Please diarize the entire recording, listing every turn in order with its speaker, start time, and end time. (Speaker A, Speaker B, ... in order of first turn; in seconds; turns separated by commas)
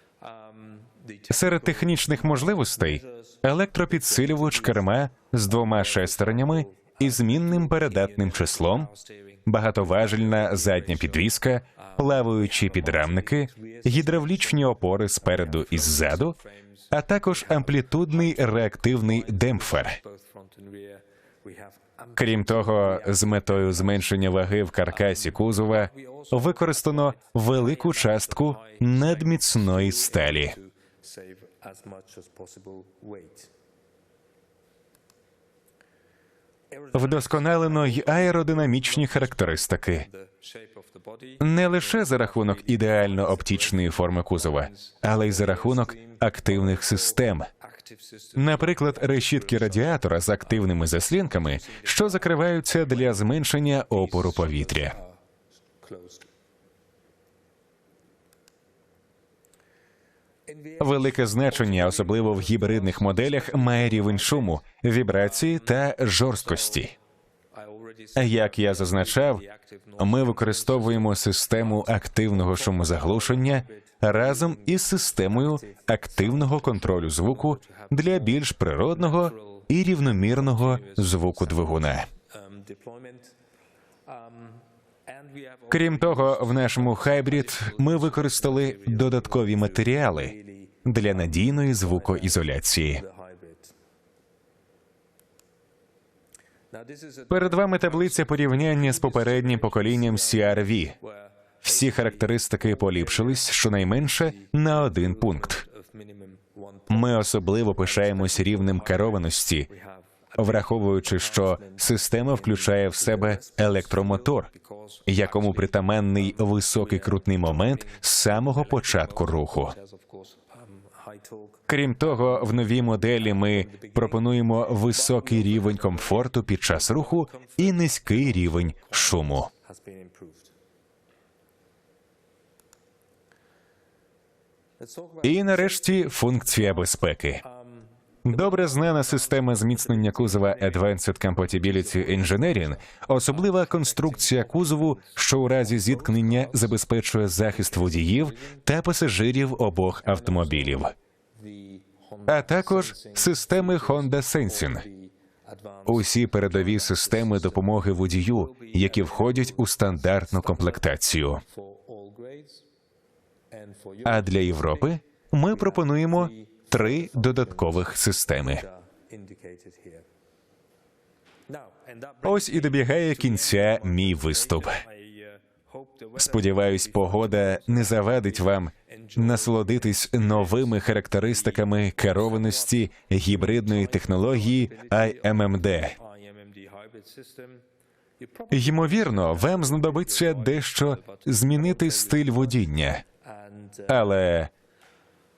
Speaker A: 0.2-3.4, Speaker B: 1.3-8.9, Speaker A: 5.7-16.9, Speaker B: 9.5-16.4, Speaker B: 16.9-20.0, Speaker A: 18.4-24.0, Speaker B: 22.1-30.6, Speaker A: 25.8-33.5, Speaker A: 36.7-53.1, Speaker B: 36.9-40.1, Speaker B: 41.4-47.5, Speaker B: 48.4-55.0, Speaker A: 54.1-55.2, Speaker A: 55.7-56.3, Speaker A: 60.5-64.6, Speaker B: 60.8-67.0, Speaker A: 66.5-66.8, Speaker A: 67.5-74.7, Speaker B: 68.2-69.4, Speaker B: 70.0-82.1, Speaker A: 75.3-78.3, Speaker A: 79.0-79.7, Speaker A: 80.3-81.7, Speaker A: 82.3-83.4, Speaker A: 84.0-93.8, Speaker B: 85.7-93.0, Speaker A: 96.7-102.2, Speaker B: 97.3-101.0, Speaker B: 101.6-105.6, Speaker A: 102.8-103.4, Speaker A: 104.4-107.2, Speaker B: 106.9-109.7, Speaker A: 107.8-111.8, Speaker B: 110.4-114.5, Speaker A: 112.5-122.5, Speaker B: 115.1-119.7, Speaker B: 121.7-129.5, Speaker A: 123.2-124.2, Speaker A: 124.8-130.5, Speaker A: 134.8-135.9, Speaker B: 135.2-137.4, Speaker A: 137.4-137.9, Speaker B: 138.2-150.9, Speaker A: 139.9-140.8, Speaker A: 141.7-142.7, Speaker A: 143.2-146.7, Speaker A: 148.3-148.6, Speaker A: 150.2-160.9, Speaker B: 152.3-154.8, Speaker B: 155.9-161.4, Speaker A: 161.4-162.7, Speaker A: 163.5-165.0, Speaker B: 164.1-168.7, Speaker A: 165.6-167.5, Speaker A: 168.5-170.1, Speaker A: 171.5-180.8, Speaker B: 172.2-174.8, Speaker B: 176.2-185.9, Speaker A: 181.4-182.8, Speaker A: 183.3-187.7, Speaker A: 188.2-192.4, Speaker B: 188.5-193.0, Speaker A: 193.2-194.2, Speaker B: 193.9-194.5